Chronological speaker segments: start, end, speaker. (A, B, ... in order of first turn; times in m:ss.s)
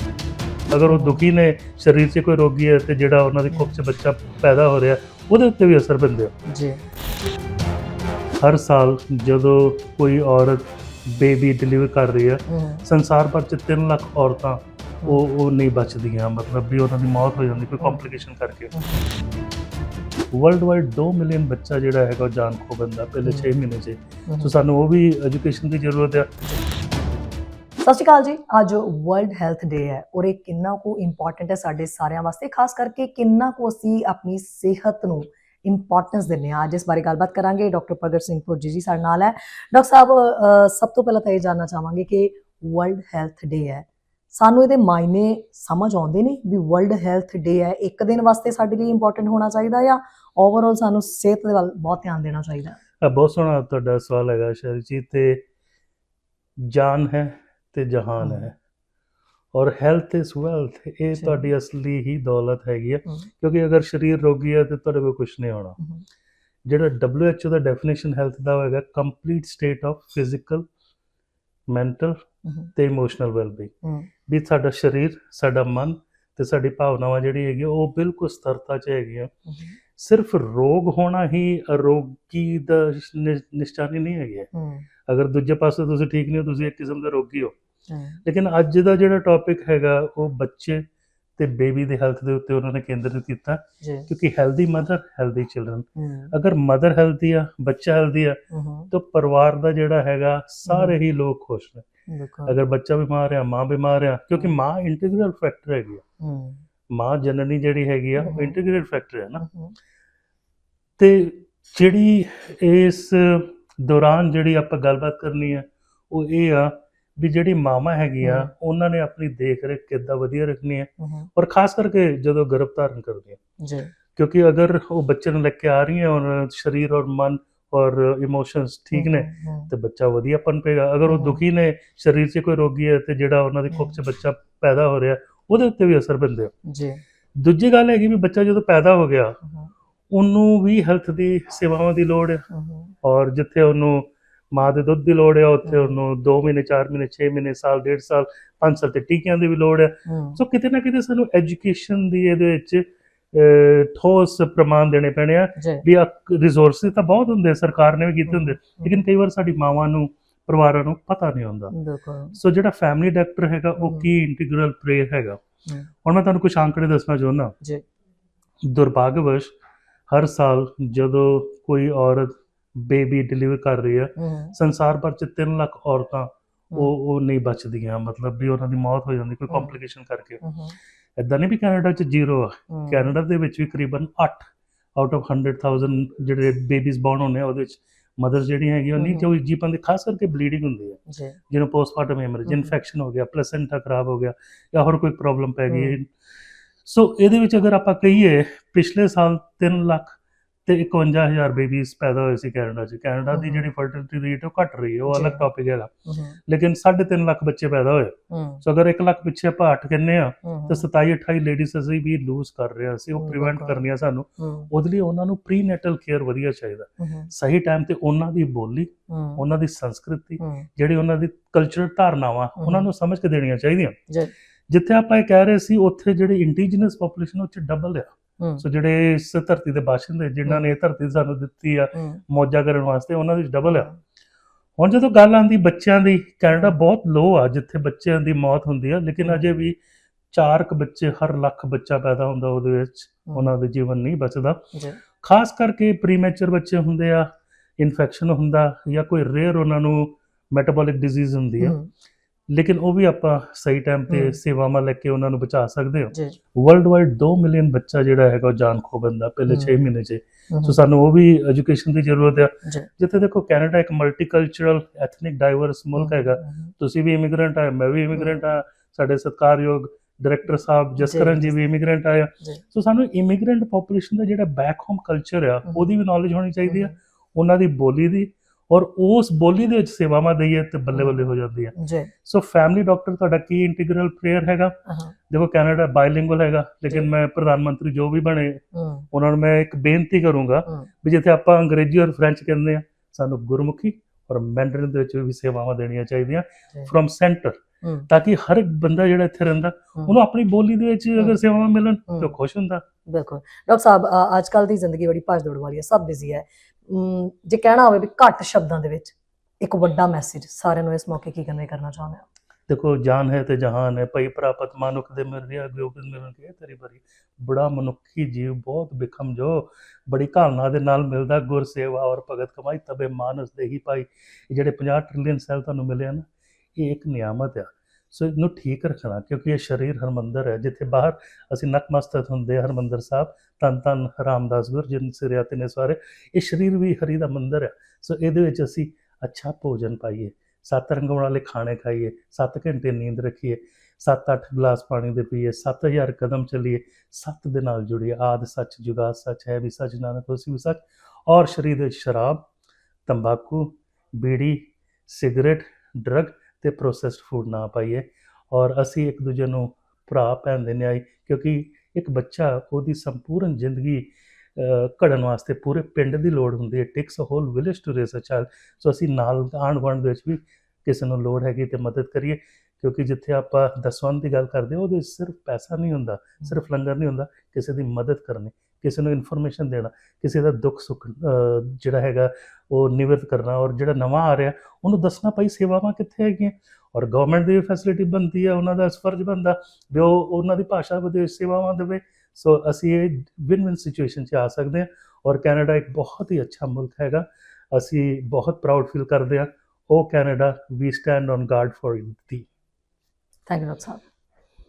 0:00.7-0:06.3 A
0:00.9-0:01.2 B
0:03.5-0:03.8 B
0:06.5-0:06.8 B
0:08.4-0:18.7 A
0:12.5-0:12.9 B
0:17.8-0:18.1 B
0:18.7-0:19.0 B
0:20.3-0:26.3 A
0:23.2-0:23.5 B
0:24.3-0:24.5 B
0:27.8-0:52.8 B
0:53.0-0:55.4 A
0:56.6-0:58.6 A
0:58.2-0:58.5 B
0:59.5-1:05.8 A
1:01.1-1:01.5 B
1:05.8-1:06.0 B
1:06.7-1:10.6 A
1:11.7-1:13.7 A
1:12.4-1:12.7 B
1:13.8-1:14.1 B
1:14.3-1:19.3 A
1:19.5-1:19.8 B
1:20.0-1:24.5 A
1:24.5-1:24.9 B
1:25.1-1:27.5 A
1:27.9-1:28.2 B
1:28.3-1:30.8 A
1:31.4-1:38.4 A
1:33.8-1:34.1 B
1:36.0-1:36.3 B
1:38.5-1:38.9 B
1:38.9-1:41.9 A
1:40.7-1:41.0 B
1:42.1-1:42.6 B
1:42.5-1:46.0 A
1:46.2-1:46.6 B
1:46.9-1:49.4 A
1:48.2-1:48.6 B
1:49.4-1:49.8 B
1:51.0-2:03.4 A
1:58.2-1:58.5 B
2:01.0-2:01.3 B
2:03.6-2:03.9 B
2:04.2-2:16.5 A
2:08.9-2:09.7 B
2:11.1-2:11.4 B
2:13.7-2:14.0 B
2:16.7-2:17.0 B
2:17.4-2:19.4 A
2:19.4-2:19.7 B
2:20.1-2:22.4 A
2:22.5-2:23.0 B
2:23.0-2:41.7 A
2:25.6-2:26.0 B
2:30.1-2:30.4 B
2:35.6-2:35.8 B
2:38.3-2:39.0 B
2:41.7-2:42.4 B
2:42.4-2:45.4 A
2:43.8-2:44.1 B
2:46.0-2:47.5 A
2:48.6-2:49.5 A
2:50.1-3:00.4 A
2:54.2-2:54.6 B
2:59.5-2:59.8 B
3:00.4-3:00.8 B
3:01.2-3:16.1 A
3:02.7-3:03.2 B
3:09.0-3:09.3 B
3:11.1-3:11.4 B
3:12.5-3:12.8 B
3:15.7-3:16.0 B
3:16.8-3:25.9 A
3:23.3-3:23.7 B
3:25.1-3:25.5 B
3:26.1-3:26.4 B
3:26.5-3:44.0 A
3:28.3-3:28.6 B
3:30.4-3:30.8 B
3:33.2-3:33.9 B
3:34.4-3:34.7 B
3:37.0-3:37.3 B
3:39.1-3:39.4 B
3:40.4-3:40.7 B
3:42.6-3:42.9 B
3:44.7-3:48.1 A
3:48.6-3:53.9 A
3:50.5-3:50.7 B
3:51.9-3:52.2 B
3:53.7-3:54.0 B
3:54.8-3:59.8 A
3:56.5-3:56.8 B
3:59.2-3:59.5 B
4:00.3-4:04.6 A
4:04.7-4:05.0 B
4:05.2-4:11.8 A
4:11.6-4:11.9 B
4:12.5-4:41.7 A
4:14.1-4:14.4 B
4:16.1-4:16.4 B
4:19.5-4:19.9 B
4:20.5-4:20.8 B
4:26.0-4:26.7 B
4:31.0-4:31.6 B
4:36.7-4:36.9 B
4:40.9-4:42.1 B
4:42.2-4:44.8 A
4:44.9-4:45.1 B
4:45.3-5:02.8 A
4:48.7-4:49.1 B
4:57.8-4:58.1 B
5:02.1-5:02.4 B
5:03.1-5:12.3 B
5:12.7-5:52.5 A
5:53.1-6:42.5 A
6:43.5-6:44.0 B